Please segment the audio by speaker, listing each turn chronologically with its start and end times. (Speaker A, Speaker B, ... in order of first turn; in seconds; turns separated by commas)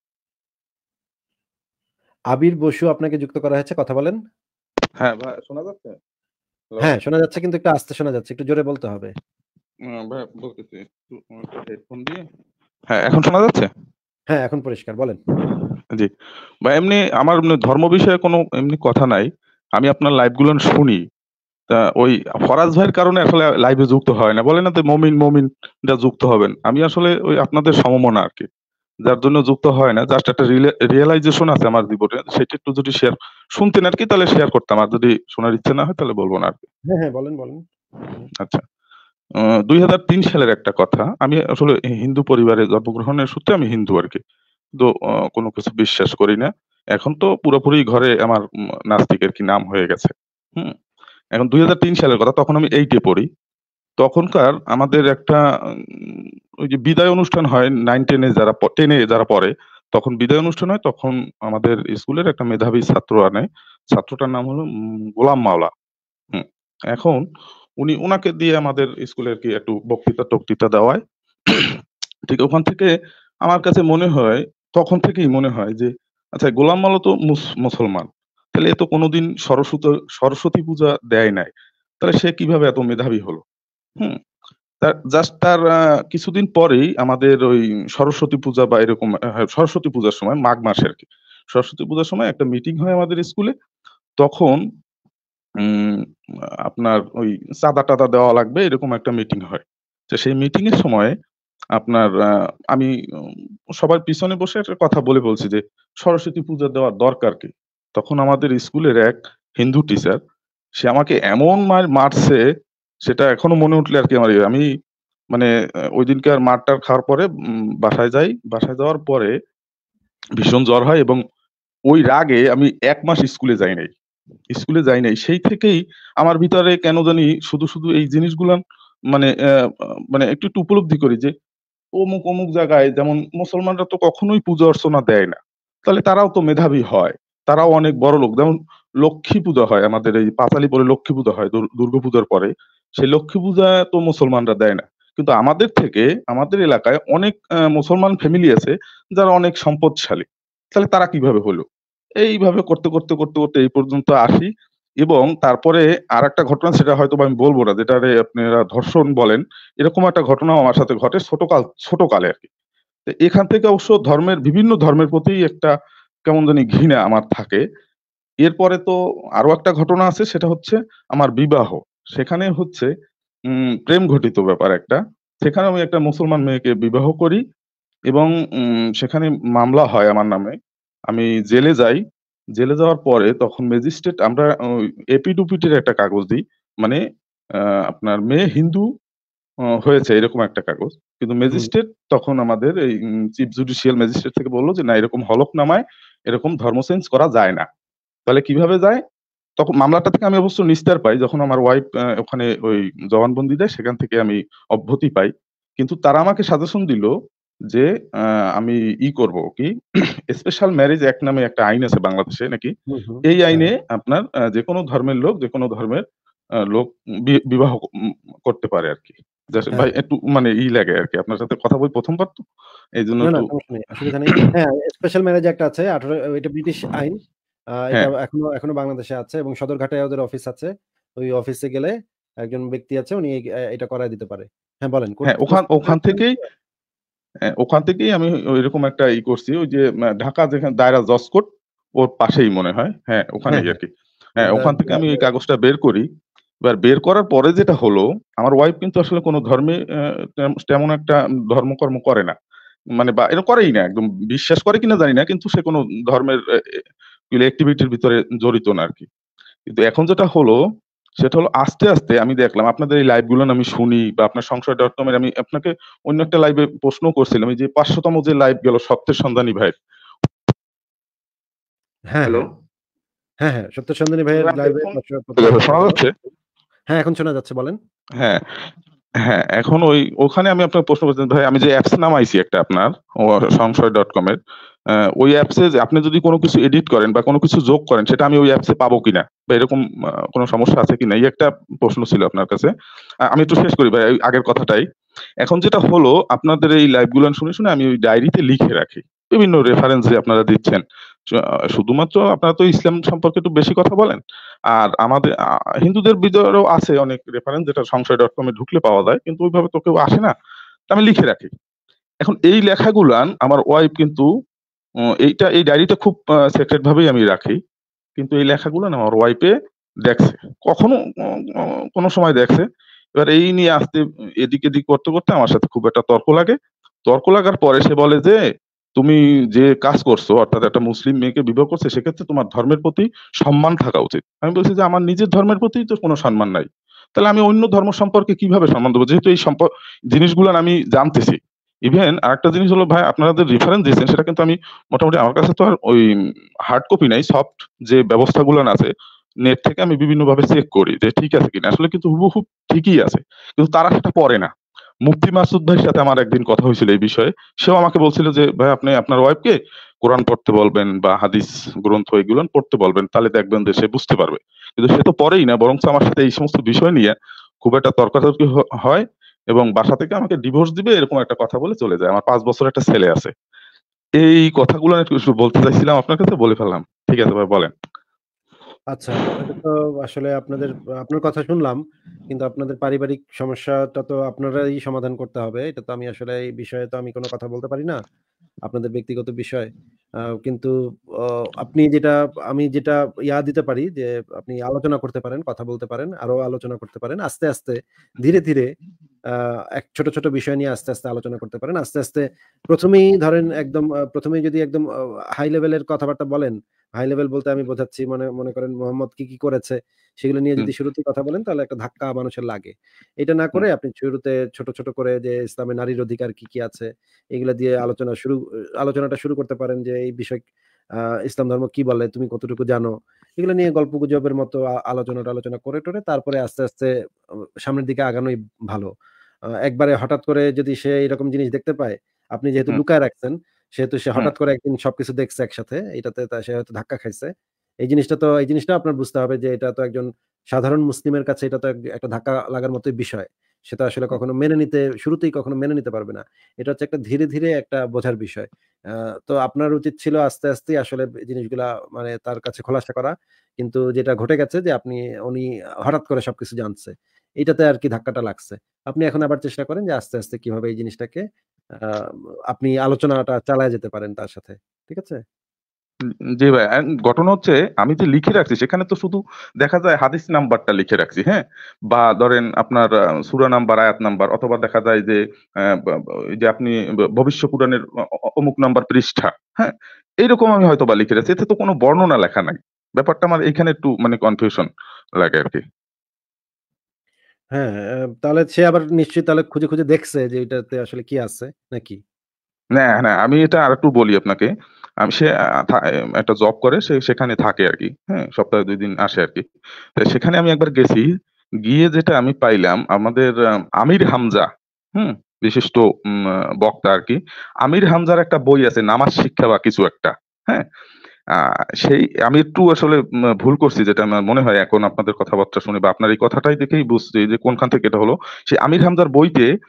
Speaker A: 2.3-4.2, Speaker B: 5.0-6.0, Speaker A: 6.8-9.1, Speaker B: 9.9-12.2, Speaker B: 12.9-13.7, Speaker A: 14.3-15.2, Speaker B: 16.7-21.0, Speaker B: 21.7-28.5, Speaker B: 29.1-36.7, Speaker A: 36.9-37.6, Speaker B: 39.7-44.2, Speaker B: 44.8-50.8, Speaker B: 51.4-53.3, Speaker B: 54.0-64.7, Speaker B: 65.2-65.7, Speaker B: 66.3-67.2, Speaker B: 67.8-72.9, Speaker B: 73.5-83.4, Speaker B: 84.8-93.5, Speaker B: 94.2-94.6, Speaker B: 95.6-96.0, Speaker B: 96.7-101.1, Speaker B: 101.8-102.1, Speaker B: 103.8-110.2, Speaker B: 110.8-112.4, Speaker B: 113.1-114.7, Speaker B: 115.3-117.3, Speaker B: 117.8-119.3, Speaker B: 120.4-121.2, Speaker B: 121.9-123.9, Speaker B: 124.5-128.6, Speaker B: 130.1-131.3, Speaker B: 132.0-151.7, Speaker B: 152.2-154.5, Speaker B: 155.0-162.5, Speaker B: 163.1-165.7, Speaker B: 166.3-167.6, Speaker B: 168.4-172.9, Speaker B: 173.5-177.4, Speaker B: 178.1-180.6, Speaker B: 181.1-182.0, Speaker B: 182.6-184.5, Speaker B: 185.1-187.0, Speaker B: 187.6-188.8, Speaker B: 189.8-192.8, Speaker B: 193.3-197.7, Speaker B: 198.3-199.0, Speaker B: 199.6-207.1, Speaker B: 208.6-209.7, Speaker B: 210.3-212.7, Speaker A: 212.9-213.7, Speaker B: 213.2-216.0, Speaker B: 216.7-217.9, Speaker B: 218.5-222.4, Speaker B: 223.0-223.5, Speaker A: 223.2-227.2, Speaker A: 227.8-231.9, Speaker A: 232.4-236.5, Speaker B: 235.3-236.4, Speaker B: 237.6-241.5, Speaker B: 242.0-243.9, Speaker A: 243.5-243.8, Speaker A: 244.4-245.3, Speaker B: 244.4-246.1, Speaker B: 246.6-252.3, Speaker B: 253.0-256.4, Speaker B: 257.3-259.1, Speaker B: 259.7-260.6, Speaker B: 261.2-269.8, Speaker A: 272.1-272.4, Speaker A: 273.4-276.0, Speaker B: 274.4-276.1, Speaker A: 276.9-277.8, Speaker B: 279.2-284.4, Speaker B: 284.9-292.7, Speaker B: 293.3-294.8, Speaker B: 295.4-304.2, Speaker B: 304.7-305.3, Speaker B: 305.8-310.3, Speaker B: 310.9-311.5, Speaker B: 312.2-314.3, Speaker B: 315.2-317.6, Speaker B: 318.2-319.5, Speaker B: 320.1-322.6, Speaker B: 323.2-326.6, Speaker B: 327.1-328.4, Speaker B: 329.0-346.1, Speaker B: 346.7-348.9, Speaker B: 349.4-354.5, Speaker B: 355.1-373.3, Speaker B: 374.2-377.7, Speaker A: 378.9-381.8, Speaker A: 382.3-388.0, Speaker A: 388.7-389.7, Speaker A: 390.4-390.7, Speaker A: 391.6-398.7, Speaker A: 399.8-404.9, Speaker A: 405.4-420.4, Speaker A: 421.3-426.9, Speaker A: 427.7-428.9, Speaker A: 429.7-437.3, Speaker A: 437.9-448.5, Speaker A: 449.3-461.2, Speaker A: 462.5-465.2, Speaker B: 466.4-477.8, Speaker B: 478.4-484.7, Speaker B: 485.2-485.6, Speaker A: 487.5-492.0, Speaker B: 492.8-494.5, Speaker B: 495.0-499.4, Speaker B: 500.0-501.1, Speaker B: 501.7-510.7, Speaker B: 511.4-519.5